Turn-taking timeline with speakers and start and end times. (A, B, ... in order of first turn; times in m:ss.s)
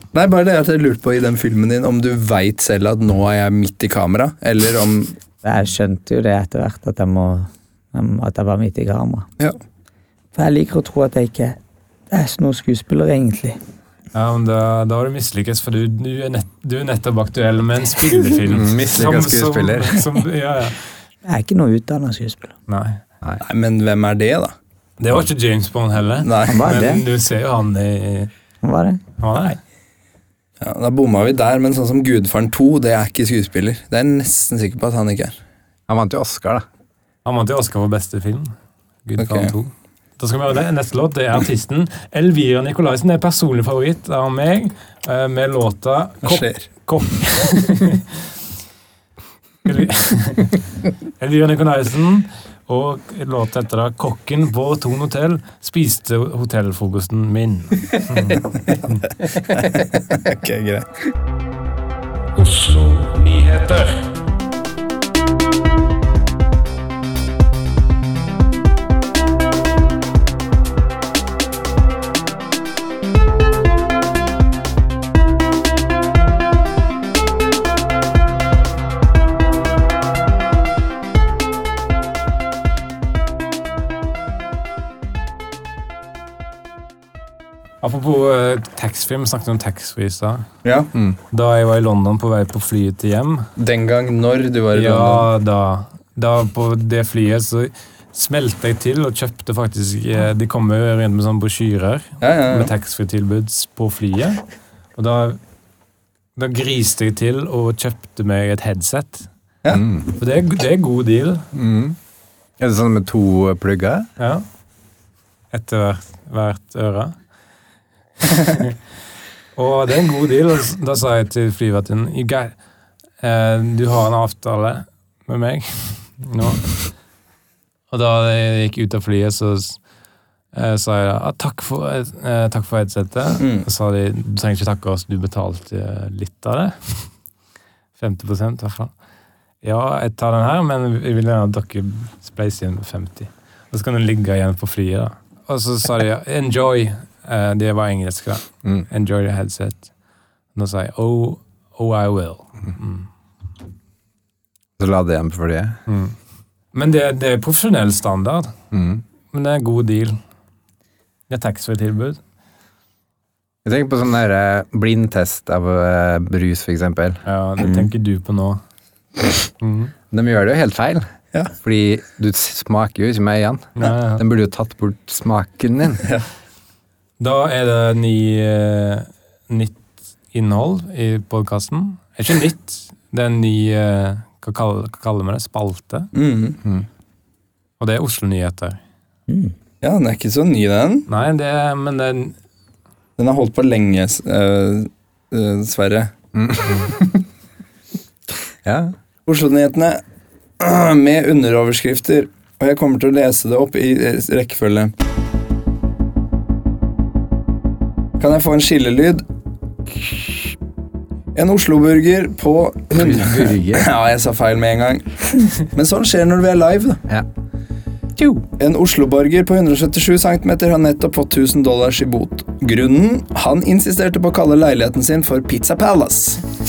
0:00.1-0:05.1 A
0:05.4-0:09.2 B
0:10.3-0:11.6 B
0:12.1-0:13.6 B
0:14.1-0:20.9 C
0:18.5-0:20.0 D
0:21.2-0:22.5 B
0:22.7-0:23.0 C
0:23.4-0:24.5 A
0:25.0-0:28.3 C
0:26.2-0:26.8 A
0:26.5-0:27.0 B
0:28.6-0:29.0 B
0:29.2-0:29.6 C
0:30.6-0:35.4 A
0:35.9-0:36.6 D
0:37.2-0:38.5 C
0:39.0-0:48.3 C
0:39.2-0:39.5 A
0:46.2-0:46.6 A
0:49.6-0:50.6 C
0:51.2-0:59.0 C
0:58.3-0:58.8 A
0:59.4-1:00.9 A
1:02.4-1:04.0 C
1:27.8-1:30.4 C
1:30.6-1:30.9 A
1:31.3-1:33.5 C
1:33.6-1:35.3 A
1:34.7-1:44.4 C
1:42.2-1:42.7 A
1:45.0-1:45.4 C
1:46.4-1:49.3 C
1:49.7-1:50.1 D
1:50.2-1:51.5 C
1:51.5-1:52.0 D
1:52.6-1:54.1 D
1:54.2-1:54.4 C
1:55.5-1:57.1 C
1:58.5-1:58.8 C
1:59.5-2:02.5 C
2:03.2-2:06.7 C
2:07.9-2:09.8 C
2:10.5-2:17.1 C
2:13.4-2:13.6 A
2:18.0-2:18.9 C
2:19.6-2:29.8 C
2:30.5-2:33.1 C
2:34.8-2:35.8 D
2:35.9-2:36.1 C
2:36.7-2:38.5 C
2:38.7-2:39.0 D
2:39.3-2:40.2 C
2:41.3-2:42.2 C
2:43.6-2:47.2 D
2:47.2-2:48.6 C
2:47.6-2:47.9 B
2:49.6-2:49.9 C
2:50.1-2:51.0 D
2:51.6-2:56.0 D
2:53.8-2:54.2 C
2:57.2-2:59.8 C
3:00.3-3:06.1 C
3:06.1-3:06.6 A
3:07.8-3:08.8 C
3:09.8-3:11.0 A
3:11.1-3:12.3 C
3:13.2-3:16.1 A
3:16.3-3:17.2 D
3:18.6-3:18.9 D
3:19.2-3:20.0 A
3:20.6-3:24.9 A
3:28.2-3:29.2 A
3:31.3-3:37.0 A
3:32.9-3:33.9 D
3:38.6-3:46.4 A